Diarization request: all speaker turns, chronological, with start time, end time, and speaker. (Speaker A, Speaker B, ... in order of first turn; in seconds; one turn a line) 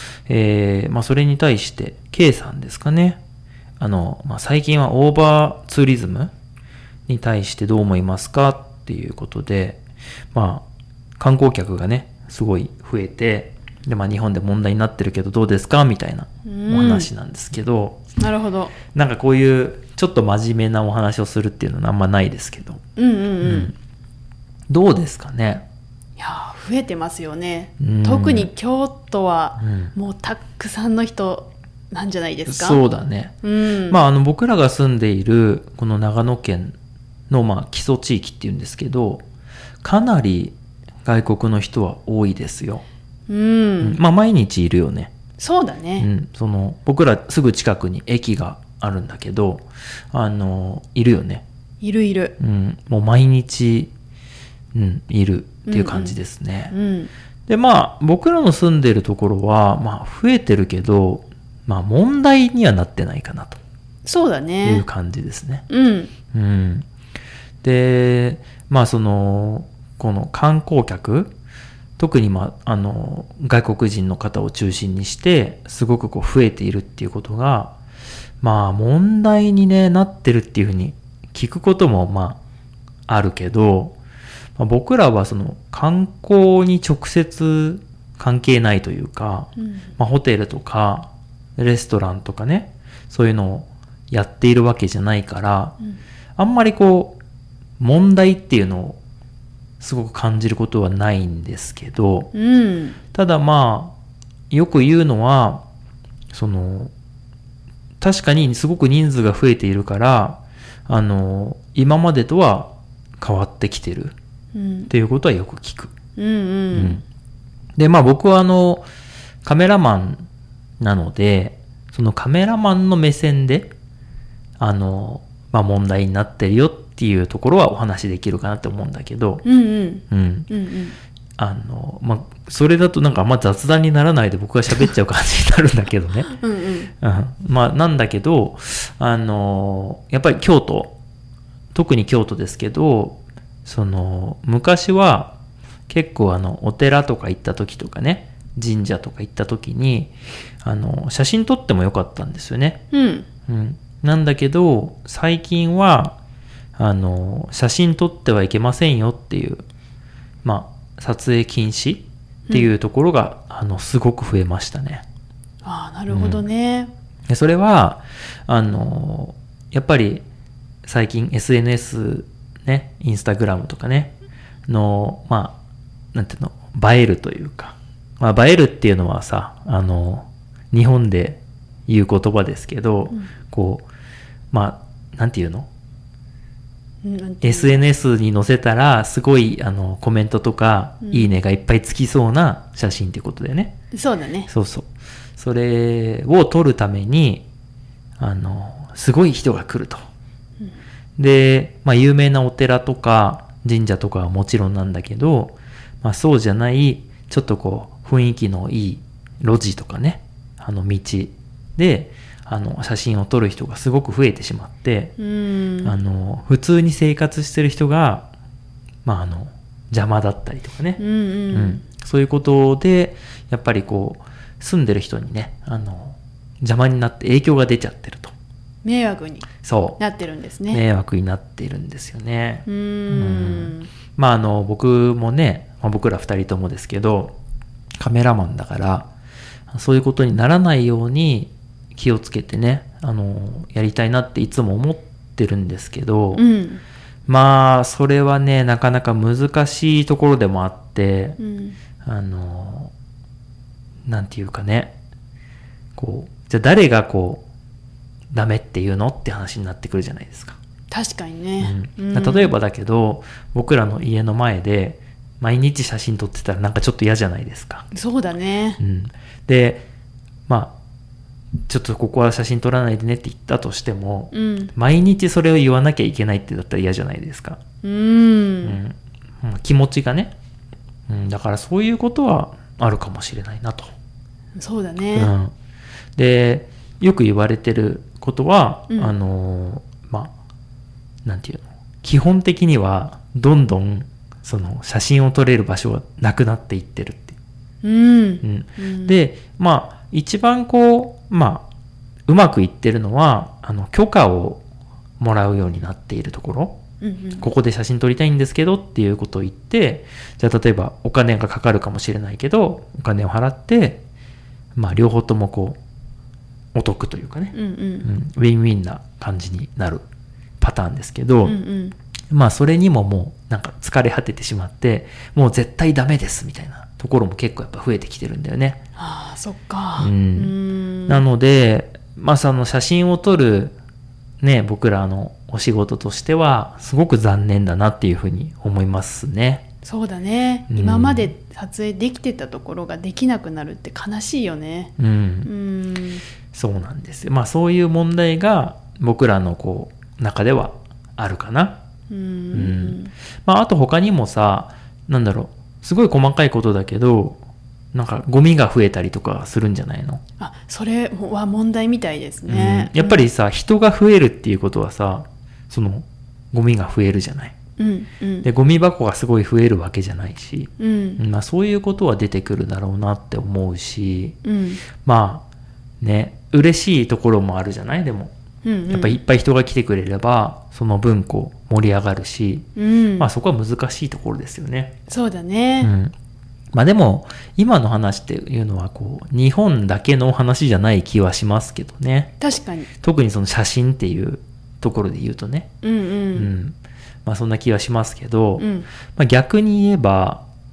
Speaker A: 0.3-3.2
Speaker A: 3.8-6.3
Speaker A: 7.1-9.8
Speaker A: 10.3-10.7
Speaker A: 11.2-18.0
Speaker B: 16.4-17.1
Speaker B: 18.2-18.7
Speaker A: 18.9-22.8
Speaker B: 22.9-23.7
Speaker A: 23.4-23.7
Speaker A: 24.7-25.6
Speaker B: 26.2-32.8
Speaker A: 27.8-28.5
Speaker A: 29.6-29.9
Speaker A: 32.5-33.4
Speaker B: 33.4-34.0
Speaker A: 33.9-36.7
Speaker A: 37.3-39.2
Speaker A: 39.8-42.8
Speaker B: 43.3-44.0
Speaker A: 43.8-45.1
Speaker B: 45.4-46.1
Speaker A: 46.0-51.4
Speaker B: 51.8-52.4
Speaker A: 52.4-53.9
Speaker A: 54.7-56.7
Speaker B: 55.7-56.2
Speaker B: 56.7-57.1
Speaker A: 57.5-63.6
Speaker B: 64.0-64.8
Speaker A: 64.6-65.6
Speaker B: 65.7-66.1
Speaker A: 66.3-66.8
Speaker A: 67.6-71.3
Speaker A: 72.0-77.8
Speaker A: 78.4-82.4
Speaker A: 83.1-83.9
Speaker A: 84.6-95.8
Speaker B: 89.6-89.8
Speaker A: 96.4-97.2
Speaker A: 97.8-99.0
Speaker A: 99.8-102.3
Speaker B: 102.3-103.0
Speaker A: 103.1-103.9
Speaker A: 104.5-105.6
Speaker A: 106.3-106.9
Speaker A: 108.0-114.1
Speaker B: 114.5-114.9
Speaker A: 114.9-115.9
Speaker B: 116.2-117.0
Speaker A: 116.7-117.0
Speaker A: 117.8-118.8
Speaker A: 119.4-120.2
Speaker A: 120.8-123.7
Speaker A: 124.6-129.4
Speaker B: 129.4-131.0
Speaker A: 130.1-130.5
Speaker A: 131.4-136.4
Speaker B: 136.3-136.9
Speaker A: 137.0-140.9
Speaker A: 141.7-145.3
Speaker A: 145.9-152.8
Speaker B: 152.9-153.3
Speaker A: 153.5-156.2
Speaker A: 156.8-159.6
Speaker A: 160.4-165.0
Speaker B: 165.6-166.9
Speaker A: 166.1-166.4
Speaker A: 167.3-170.2
Speaker A: 170.8-174.2
Speaker A: 174.7-175.6
Speaker A: 176.1-183.8
Speaker A: 184.5-185.7
Speaker B: 187.0-187.8
Speaker A: 187.4-193.8
Speaker B: 193.9-194.5
Speaker A: 194.5-197.4
Speaker A: 198.2-200.0
Speaker A: 201.2-215.1
Speaker B: 215.2-215.9
Speaker A: 215.8-218.3
Speaker A: 219.0-221.0
Speaker B: 221.0-221.8
Speaker A: 221.5-228.3
Speaker B: 228.8-230.8
Speaker A: 229.6-230.0
Speaker A: 230.7-237.3
Speaker B: 232.7-233.9
Speaker A: 238.0-239.1
Speaker A: 239.7-246.4
Speaker B: 246.3-246.8
Speaker A: 247.3-251.4
Speaker B: 251.4-251.8
Speaker A: 252.0-252.9
Speaker A: 254.1-255.0
Speaker A: 255.9-257.4
Speaker A: 258.3-260.6
Speaker B: 260.9-262.5
Speaker A: 261.6-267.9
Speaker B: 267.9-268.8
Speaker A: 268.8-269.9
Speaker A: 270.5-270.7
Speaker A: 271.7-277.6
Speaker B: 274.3-274.7
Speaker B: 277.8-278.8
Speaker A: 278.6-280.3
Speaker A: 281.1-283.9
Speaker B: 284.6-285.3
Speaker A: 285.1-285.5
Speaker A: 286.1-290.3
Speaker A: 291.2-297.4
Speaker B: 297.8-299.1
Speaker A: 298.4-301.7
Speaker A: 302.3-304.6
Speaker A: 305.2-306.8
Speaker B: 307.0-307.4
Speaker A: 307.4-314.0
Speaker A: 314.8-315.8
Speaker A: 316.7-320.0
Speaker B: 317.5-318.1
Speaker A: 320.6-321.6
Speaker B: 321.4-321.9
Speaker A: 322.3-328.8
Speaker B: 328.9-331.2
Speaker A: 330.0-330.5
Speaker A: 331.1-333.8
Speaker A: 334.4-339.6
Speaker B: 339.8-344.9
Speaker A: 340.7-341.3
Speaker A: 345.0-345.5
Speaker B: 345.4-346.2
Speaker A: 346.5-351.8
Speaker B: 352.1-353.1
Speaker A: 352.5-357.4
Speaker A: 357.9-360.2
Speaker B: 360.4-363.3
Speaker A: 362.5-367.5
Speaker B: 367.8-368.4
Speaker A: 368.4-374.4
Speaker B: 370.8-371.2
Speaker B: 374.4-374.8
Speaker A: 375.0-375.4
Speaker A: 376.0-378.3
Speaker B: 378.6-379.2
Speaker A: 378.9-384.9
Speaker B: 382.8-383.3
Speaker B: 385.1-385.9
Speaker A: 385.8-386.1
Speaker A: 386.7-392.3
Speaker B: 392.4-392.9
Speaker A: 393.0-395.7
Speaker B: 395.8-396.5
Speaker A: 396.3-400.4
Speaker B: 398.6-398.9